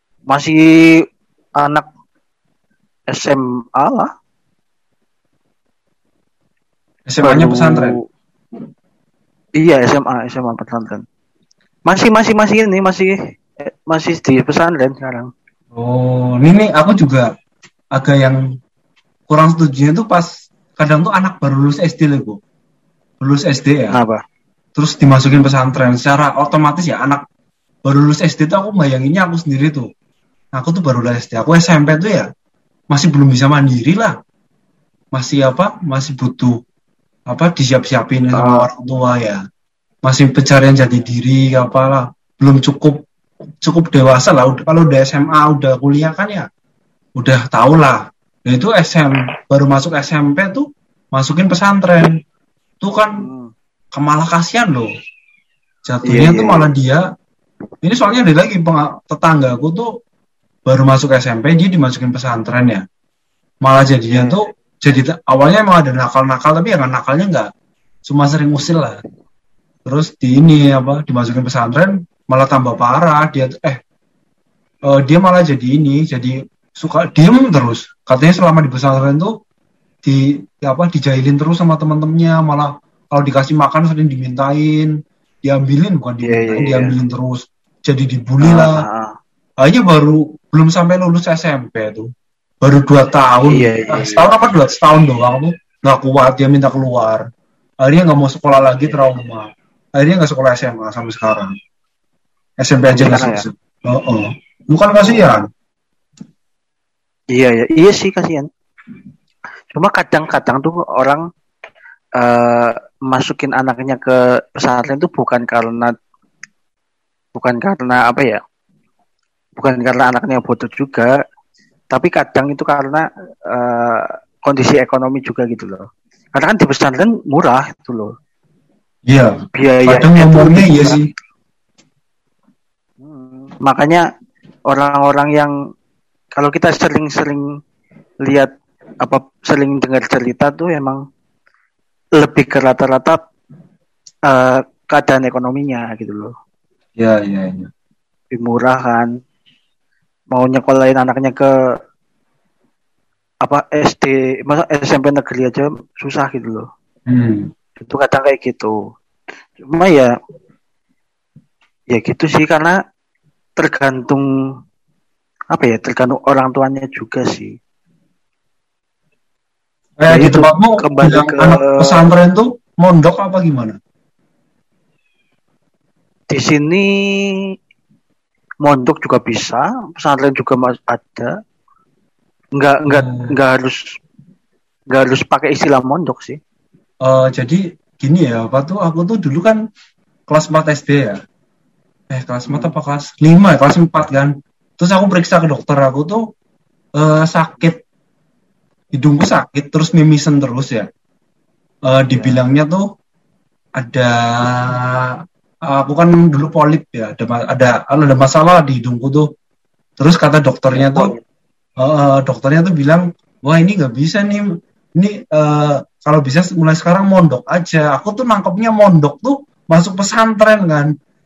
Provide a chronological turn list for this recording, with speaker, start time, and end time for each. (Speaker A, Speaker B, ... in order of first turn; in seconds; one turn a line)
Speaker A: 0.3-0.9
Speaker A: 1.6-1.9
Speaker A: 3.1-4.1
Speaker B: 7.1-8.0
Speaker A: 7.2-8.0
Speaker A: 9.6-11.0
Speaker A: 11.9-13.2
Speaker A: 13.7-15.3
Speaker B: 15.8-17.3
Speaker B: 17.9-18.4
Speaker B: 19.3-22.4
Speaker B: 23.2-23.9
Speaker A: 23.9-24.2
Speaker B: 24.8-27.2
Speaker B: 27.9-29.9
Speaker B: 30.6-32.3
Speaker B: 32.9-34.1
Speaker B: 35.1-36.6
Speaker B: 37.3-39.4
Speaker A: 38.3-38.7
Speaker B: 40.0-43.0
Speaker B: 43.6-46.5
Speaker B: 47.2-52.1
Speaker B: 52.8-53.2
Speaker A: 53.2-53.5
Speaker B: 53.9-54.9
Speaker B: 55.9-57.0
Speaker A: 56.1-56.7
Speaker B: 57.8-59.9
Speaker B: 60.7-62.8
Speaker B: 63.6-67.5
Speaker A: 64.1-64.4
Speaker B: 68.1-69.0
Speaker B: 69.9-73.8
Speaker B: 74.9-79.3
Speaker B: 80.0-84.9
Speaker B: 85.4-88.8
Speaker A: 86.2-87.0
Speaker A: 88.4-89.1
Speaker B: 89.6-92.1
Speaker B: 92.6-97.2
Speaker A: 93.5-94.3
Speaker B: 97.8-101.5
Speaker A: 98.6-99.0
Speaker B: 102.6-105.5
Speaker A: 102.9-103.4
Speaker A: 107.3-108.5
Speaker A: 109.7-111.2
Speaker A: 112.2-115.9
Speaker A: 117.3-118.4
Speaker A: 119.6-121.1
Speaker A: 121.9-128.1
Speaker B: 129.1-129.3
Speaker A: 129.6-131.0
Speaker B: 129.9-131.0
Speaker A: 133.0-134.1
Speaker A: 134.7-135.5
Speaker A: 136.4-137.4
Speaker A: 138.3-138.5
Speaker A: 139.0-141.0
Speaker A: 142.2-143.2
Speaker A: 144.3-146.3
Speaker B: 147.0-147.7
Speaker A: 148.3-149.1
Speaker A: 150.3-151.5
Speaker A: 153.4-156.7
Speaker B: 157.1-157.5
Speaker A: 157.8-158.8
Speaker A: 159.6-160.1
Speaker A: 161.9-162.8
Speaker A: 163.6-164.2
Speaker A: 165.5-167.6
Speaker B: 170.0-173.8
Speaker A: 170.1-172.1
Speaker A: 176.3-177.3
Speaker A: 178.6-181.3
Speaker A: 182.6-183.8
Speaker B: 182.9-183.3
Speaker A: 184.9-186.4
Speaker B: 187.1-189.6
Speaker B: 190.3-191.2
Speaker B: 192.1-196.2
Speaker A: 192.5-192.7
Speaker B: 197.0-197.8
Speaker B: 199.0-200.9
Speaker B: 201.9-202.8
Speaker A: 202.1-202.4
Speaker B: 203.8-205.2
Speaker B: 205.7-209.3
Speaker B: 210.0-211.1
Speaker A: 210.7-211.2
Speaker B: 211.8-220.9